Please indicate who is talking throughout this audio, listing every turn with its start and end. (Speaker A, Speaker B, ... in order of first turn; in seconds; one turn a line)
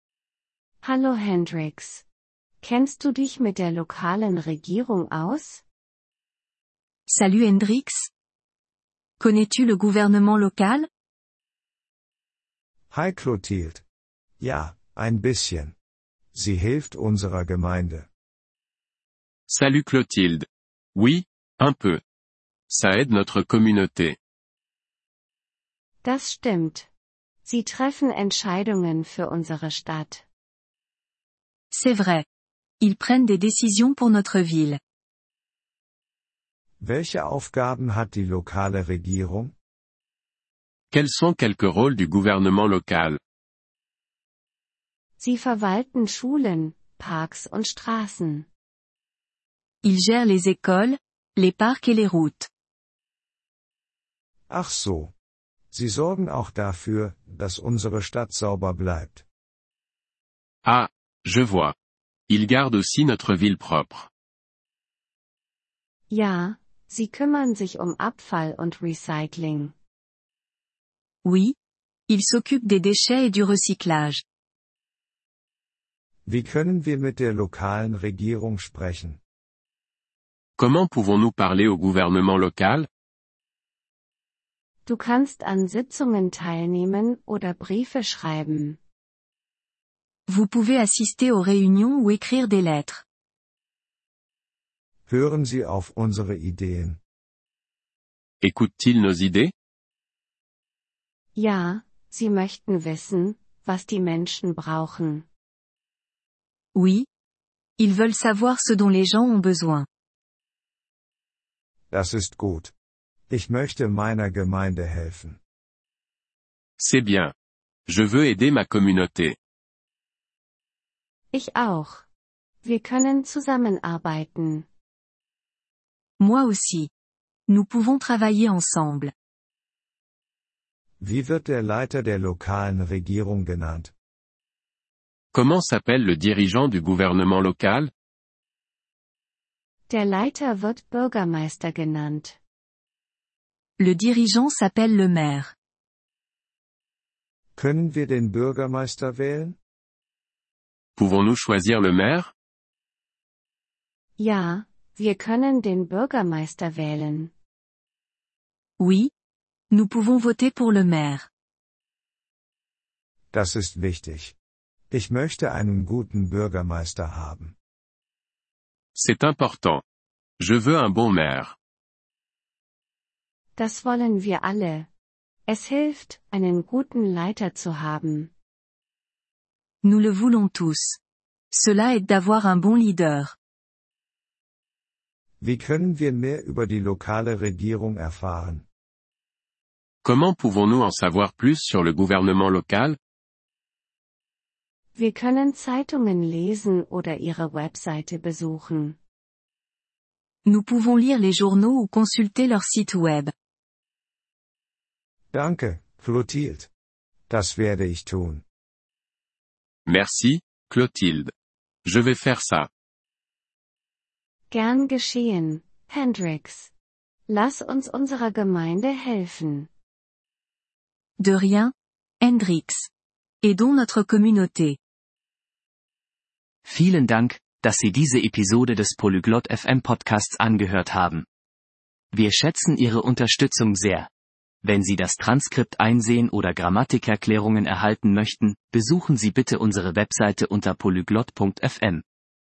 Speaker A: 0.8-2.0
Speaker A: 2.6-5.6
Speaker B: 7.1-8.1
Speaker B: 9.2-10.9
Speaker C: 12.9-13.8
Speaker C: 14.4-15.7
Speaker C: 16.3-18.1
Speaker D: 19.5-22.0
Speaker D: 22.7-24.1
Speaker A: 26.0-26.9
Speaker A: 27.4-30.2
Speaker B: 31.7-32.2
Speaker B: 32.8-34.8
Speaker C: 36.8-39.5
Speaker D: 40.9-43.2
Speaker A: 45.2-48.5
Speaker B: 49.8-52.5
Speaker C: 54.5-55.1
Speaker C: 55.7-59.2
Speaker D: 60.6-61.7
Speaker D: 62.3-64.1
Speaker A: 66.1-69.7
Speaker B: 71.2-71.5
Speaker B: 72.1-74.2
Speaker C: 76.2-79.2
Speaker D: 80.6-82.9
Speaker A: 84.8-88.8
Speaker B: 90.3-93.0
Speaker C: 95.1-97.0
Speaker D: 98.4-99.5
Speaker A: 101.3-105.2
Speaker B: 106.7-107.1
Speaker B: 107.8-109.9
Speaker C: 111.9-112.7
Speaker C: 113.3-115.4
Speaker D: 116.8-117.3
Speaker D: 117.9-119.3
Speaker A: 121.3-122.0
Speaker A: 122.6-124.7
Speaker B: 126.2-126.9
Speaker B: 127.5-129.1
Speaker C: 131.0-133.9
Speaker D: 135.3-137.9
Speaker A: 139.9-142.3
Speaker B: 143.8-145.5
Speaker C: 147.6-149.6
Speaker D: 151.0-152.3
Speaker A: 154.2-157.3
Speaker B: 158.8-159.1
Speaker B: 159.7-161.3
Speaker C: 163.3-164.3
Speaker C: 164.9-167.5
Speaker D: 168.9-169.8
Speaker D: 170.4-171.5
Speaker A: 173.6-174.9
Speaker A: 175.5-178.3
Speaker B: 179.8-181.0
Speaker B: 181.5-183.3
Speaker C: 185.4-188.6
Speaker D: 190.0-193.0
Speaker A: 195.0-198.9
Speaker B: 200.4-203.3
Speaker C: 205.3-206.7
Speaker C: 207.3-208.4
Speaker D: 209.9-211.3
Speaker D: 211.8-212.7
Speaker A: 214.5-216.7
Speaker A: 217.3-219.7
Speaker B: 221.2-222.9
Speaker B: 223.4-224.8
Speaker E: 226.6-231.2
Speaker E: 232.1-234.1
Speaker E: 234.6-242.0